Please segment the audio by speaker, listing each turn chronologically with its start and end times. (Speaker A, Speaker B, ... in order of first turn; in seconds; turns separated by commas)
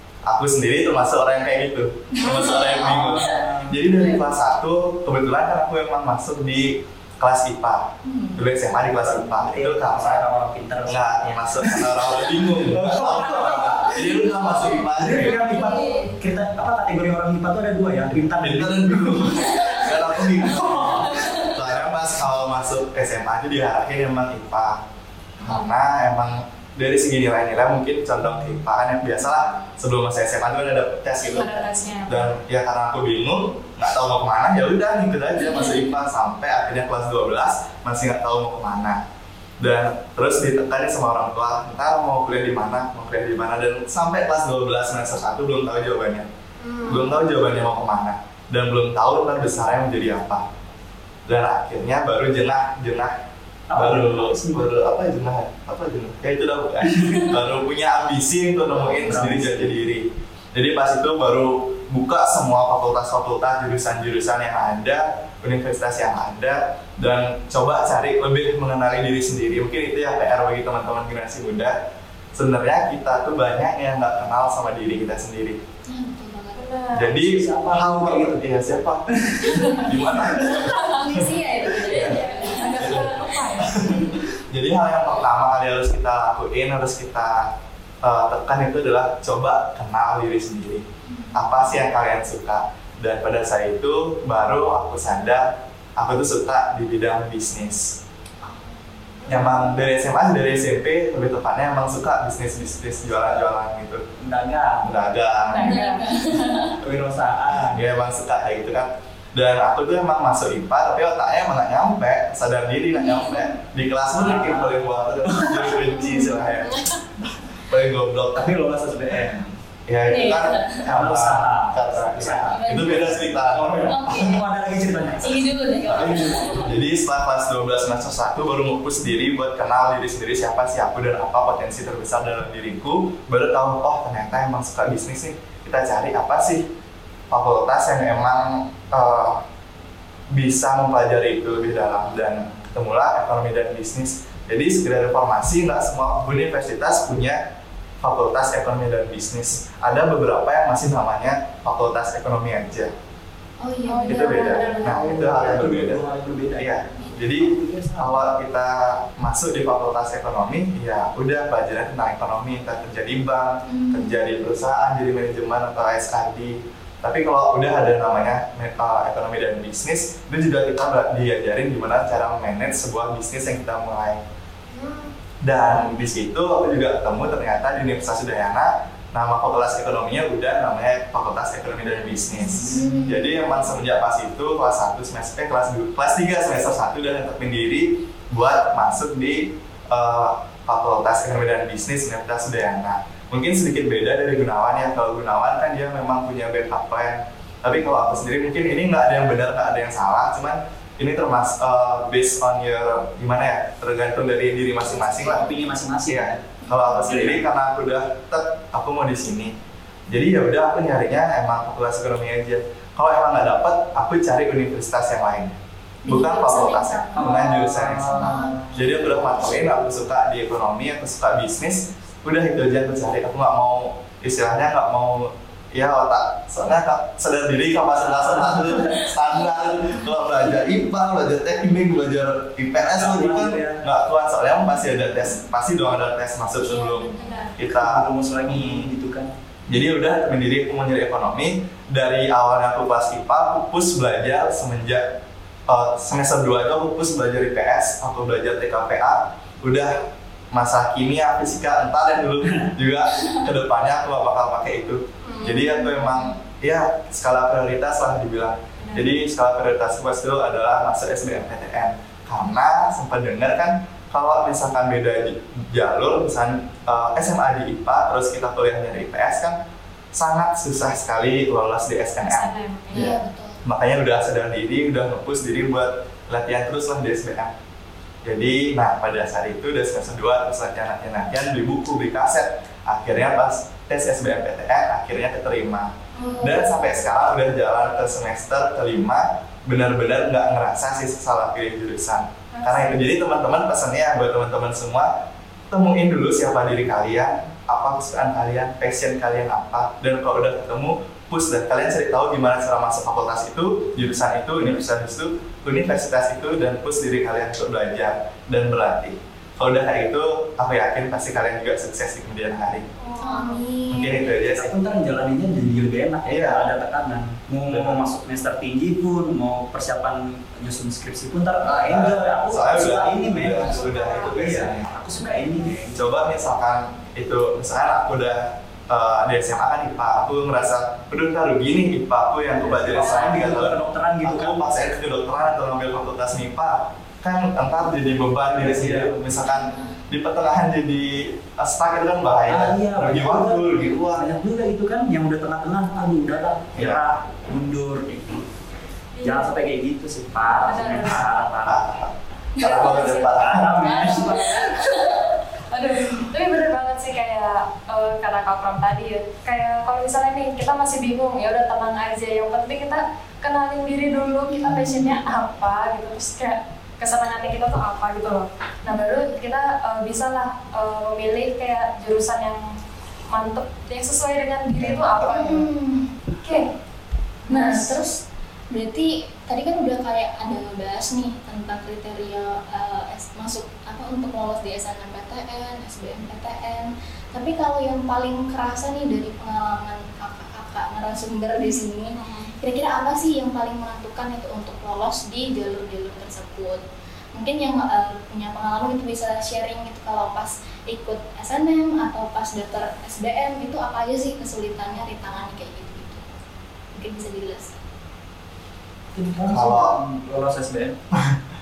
Speaker A: 0.2-15.5, Speaker B: 2.1-3.4, Speaker C: 2.7-3.8, Speaker B: 8.0-8.4, Speaker C: 8.9-14.1, Speaker B: 13.4-16.2, Speaker C: 15.0-19.7, Speaker A: 18.3-24.8, Speaker B: 19.4-19.9, Speaker C: 20.4-21.0, Speaker B: 21.1-21.5, Speaker A: 25.4-39.0, Speaker B: 29.2-29.8, Speaker D: 31.2-32.3, Speaker B: 35.5-35.9, Speaker A: 39.6-46.3, Speaker D: 46.6-47.1, Speaker A: 46.8-50.5, Speaker B: 46.9-47.1, Speaker A: 51.3-53.2, Speaker C: 53.7-54.7, Speaker A: 53.8-71.8, Speaker C: 58.7-59.7, Speaker A: 72.3-75.6, Speaker B: 75.9-76.8, Speaker D: 76.6-77.1, Speaker A: 76.9-82.2, Speaker C: 77.0-78.4, Speaker C: 79.2-79.9, Speaker B: 79.5-84.1, Speaker D: 81.9-84.0, Speaker A: 82.8-98.0, Speaker B: 91.1-91.8, Speaker B: 98.4-99.6, Speaker A: 99.3-104.1, Speaker D: 99.4-99.6, Speaker C: 104.2-104.9, Speaker A: 104.8-105.8, Speaker D: 105.5-106.1, Speaker B: 105.6-106.8, Speaker C: 106.8-107.8, Speaker A: 107.5-116.8, Speaker B: 113.0-113.5, Speaker C: 114.1-115.8, Speaker B: 115.8-116.8, Speaker A: 117.6-124.3, Speaker C: 118.4-119.4, Speaker B: 120.0-120.9, Speaker C: 120.8-126.7, Speaker B: 122.5-123.3, Speaker B: 123.8-124.5, Speaker B: 125.2-126.7, Speaker A: 125.9-136.7, Speaker A: 137.3-139.4, Speaker A: 140.3-147.4, Speaker B: 141.8-142.4, Speaker A: 148.0-152.9, Speaker B: 153.6-155.1, Speaker D: 153.9-155.1, Speaker A: 154.1-174.2, Speaker C: 154.8-158.3, Speaker B: 163.7-164.3, Speaker D: 174.7-175.1, Speaker A: 175.4-205.5, Speaker C: 182.3-183.0, Speaker B: 182.7-183.4, Speaker B: 204.9-205.6, Speaker C: 205.2-207.4, Speaker A: 206.1-209.6, Speaker B: 206.7-207.2, Speaker A: 210.1-215.6, Speaker B: 216.0-217.5, Speaker A: 216.1-238.9, Speaker C: 217.2-219.4, Speaker B: 218.2-219.3, Speaker C: 227.9-229.0, Speaker C: 232.7-233.8, Speaker B: 236.6-237.6, Speaker D: 237.2-237.6, Speaker C: 237.6-239.3, Speaker A: 239.7-269.6, Speaker D: 255.2-255.6, Speaker B: 255.4-256.4, Speaker D: 258.8-259.1, Speaker A: 270.1-277.5, Speaker D: 272.2-273.2, Speaker B: 272.9-273.6, Speaker A: 278.2-295.1, Speaker B: 286.2-287.0, Speaker D: 292.5-292.9, Speaker A: 295.7-312.9, Speaker D: 313.0-313.7, Speaker B: 313.2-314.4, Speaker A: 313.9-314.7, Speaker C: 314.5-326.0, Speaker A: 316.3-316.7, Speaker A: 317.7-318.1, Speaker A: 321.6-324.9, Speaker D: 323.6-324.4, Speaker A: 325.9-344.3, Speaker C: 332.6-334.7, Speaker D: 333.0-333.4, Speaker C: 338.6-339.1, Speaker B: 339.5-339.9, Speaker C: 342.5-348.4, Speaker A: 346.8-347.0, Speaker D: 349.2-349.6, Speaker C: 349.2-351.8, Speaker D: 350.5-351.3, Speaker A: 350.9-354.1, Speaker B: 352.6-352.9, Speaker D: 352.6-372.8, Speaker C: 353.3-354.7, Speaker B: 354.0-355.3, Speaker B: 364.5-365.2, Speaker B: 368.9-369.4, Speaker D: 373.3-375.7, Speaker A: 374.8-375.3, Speaker B: 375.3-376.2, Speaker D: 376.4-376.7, Speaker D: 377.5-378.0, Speaker B: 377.5-378.2, Speaker B: 378.7-396.8, Speaker B: 397.4-406.3, Speaker B: 406.9-407.8, Speaker C: 409.1-411.0, Speaker A: 409.5-410.0, Speaker A: 411.1-411.4